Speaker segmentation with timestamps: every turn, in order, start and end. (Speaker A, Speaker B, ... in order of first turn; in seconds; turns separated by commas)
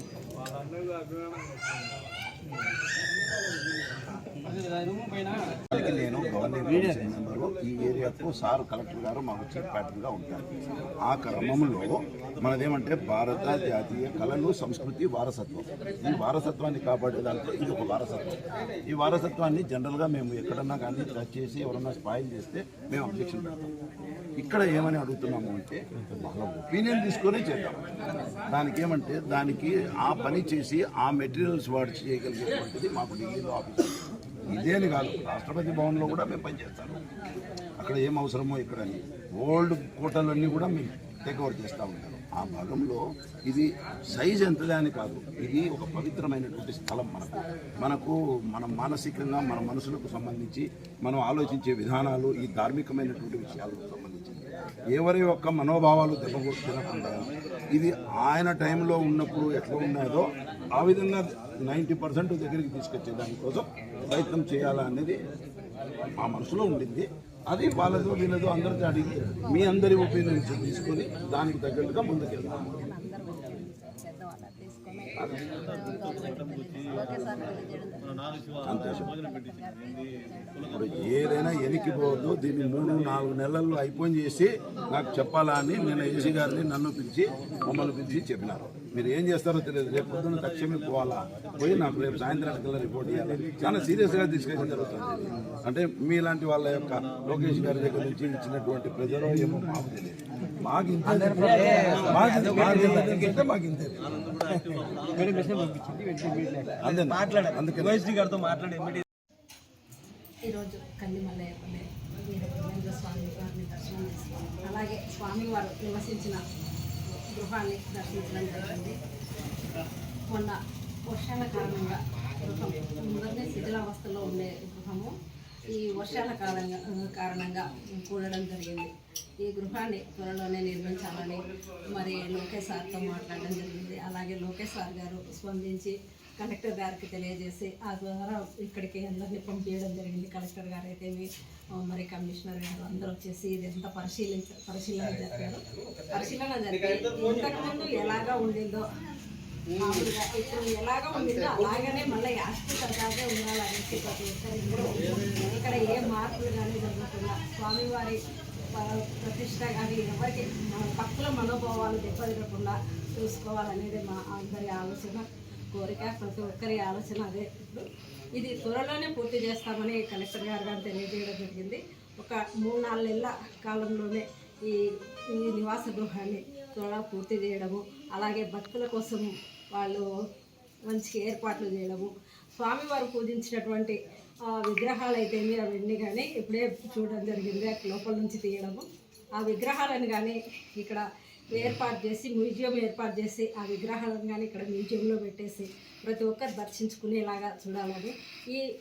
Speaker A: 4.5-5.5, Speaker B: 5.7-10.5, Speaker B: 11.0-23.6, Speaker B: 24.4-34.0, Speaker B: 34.5-37.0, Speaker B: 37.8-65.2, Speaker B: 66.2-72.8, Speaker C: 72.8-78.4, Speaker B: 78.6-79.2, Speaker C: 79.0-80.7, Speaker B: 80.7-104.4, Speaker A: 105.2-106.7, Speaker B: 106.7-108.3, Speaker A: 108.2-109.0, Speaker C: 110.5-116.4, Speaker C: 117.3-119.0, Speaker C: 120.3-120.5, Speaker C: 121.1-125.1, Speaker C: 125.7-148.8, Speaker C: 149.8-158.2, Speaker C: 158.7-180.1, Speaker C: 180.9-184.0, Speaker C: 184.5-188.8, Speaker C: 189.3-198.6